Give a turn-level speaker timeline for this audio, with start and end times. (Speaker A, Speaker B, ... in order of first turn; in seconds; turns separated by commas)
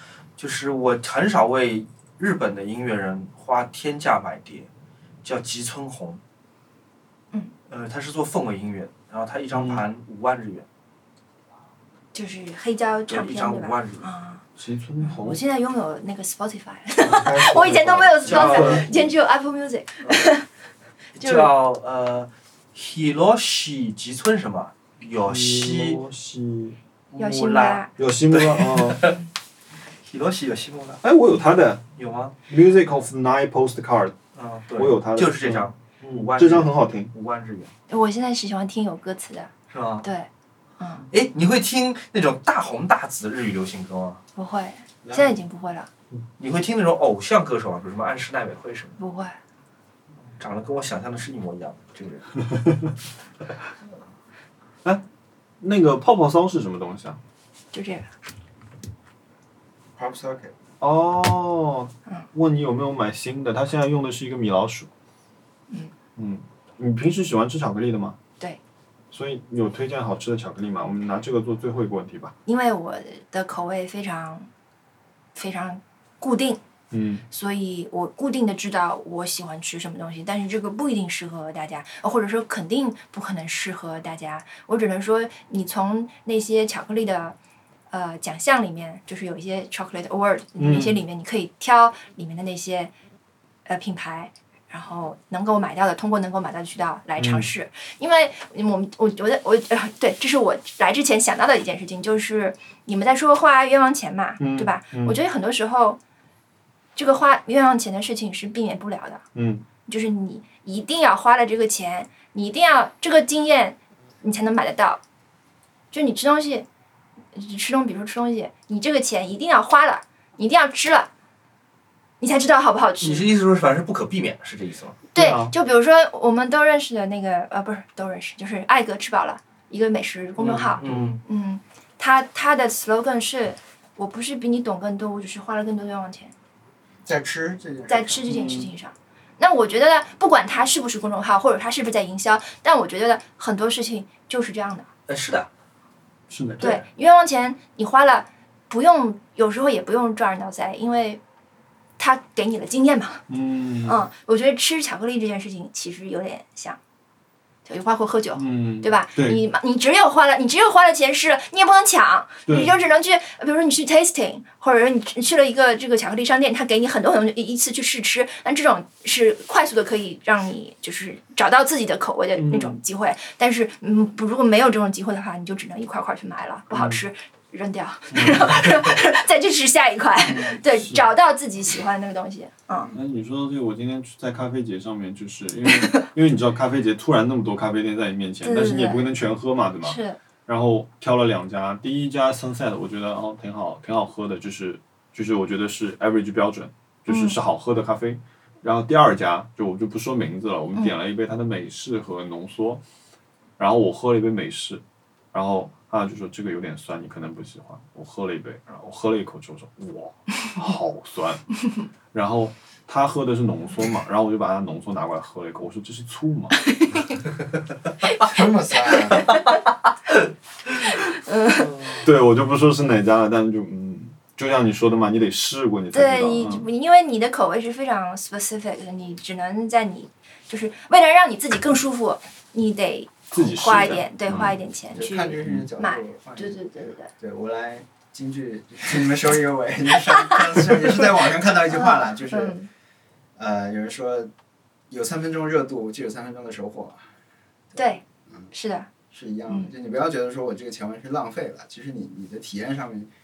Speaker A: 0.4-4.7, Speaker A: 5.2-6.2, Speaker A: 7.7-10.7, Speaker B: 9.5-9.8, Speaker C: 12.1-14.4, Speaker A: 13.1-14.1, Speaker B: 14.6-15.4, Speaker C: 15.0-20.5, Speaker B: 17.0-19.1, Speaker A: 18.2-19.1, Speaker A: 21.1-26.0, Speaker C: 21.2-21.5, Speaker B: 25.2-26.8, Speaker A: 27.1-29.2, Speaker C: 27.2-27.9, Speaker B: 28.0-29.2, Speaker A: 30.1-31.0, Speaker B: 31.0-31.9, Speaker A: 31.9-32.4, Speaker B: 32.5-34.2, Speaker A: 34.4-37.7, Speaker B: 34.8-37.1, Speaker C: 37.9-39.5, Speaker A: 39.7-40.1, Speaker C: 40.0-41.1, Speaker A: 41.1-44.2, Speaker C: 44.4-45.9, Speaker D: 45.0-45.4, Speaker A: 46.4-49.0, Speaker C: 49.0-49.4, Speaker A: 50.4-52.4, Speaker B: 55.6-57.2, Speaker C: 57.7-58.1, Speaker D: 60.0-60.5, Speaker B: 60.8-64.9, Speaker B: 66.2-68.2, Speaker B: 69.1-72.3, Speaker C: 72.5-74.5, Speaker C: 75.3-76.6, Speaker B: 76.9-77.2, Speaker C: 77.3-87.4, Speaker C: 87.9-92.9, Speaker B: 90.6-91.0, Speaker C: 93.7-106.0, Speaker B: 97.2-97.5, Speaker B: 104.4-105.2, Speaker C: 107.0-109.2, Speaker B: 109.3-109.7, Speaker C: 109.9-115.0, Speaker C: 115.9-116.7, Speaker C: 117.3-121.1, Speaker C: 122.2-123.3, Speaker A: 123.0-125.0, Speaker C: 125.1-136.3, Speaker B: 125.2-125.5, Speaker A: 130.4-131.2, Speaker B: 130.8-131.1, Speaker D: 137.1-138.6, Speaker C: 137.9-144.9, Speaker A: 138.3-138.7, Speaker A: 145.1-145.5, Speaker B: 146.3-146.6, Speaker A: 146.5-146.8, Speaker C: 146.6-151.2, Speaker C: 152.0-153.2, Speaker B: 153.3-154.1, Speaker C: 153.8-156.8, Speaker C: 157.7-182.9, Speaker B: 158.3-159.4, Speaker B: 162.5-162.7, Speaker B: 172.4-172.8, Speaker B: 176.7-177.0, Speaker B: 178.1-178.6, Speaker B: 180.3-181.0, Speaker B: 182.9-202.8, Speaker C: 188.4-189.1, Speaker C: 189.8-190.2, Speaker C: 197.1-197.4, Speaker B: 203.6-211.4, Speaker B: 212.1-216.6, Speaker C: 216.7-217.2, Speaker D: 218.1-219.3, Speaker C: 221.1-222.0, Speaker B: 222.0-226.7, Speaker C: 225.9-237.1, Speaker B: 233.3-234.6, Speaker D: 234.9-242.6, Speaker C: 241.7-242.7, Speaker D: 243.4-244.3, Speaker D: 244.9-247.0, Speaker C: 247.8-248.9, Speaker D: 249.1-253.1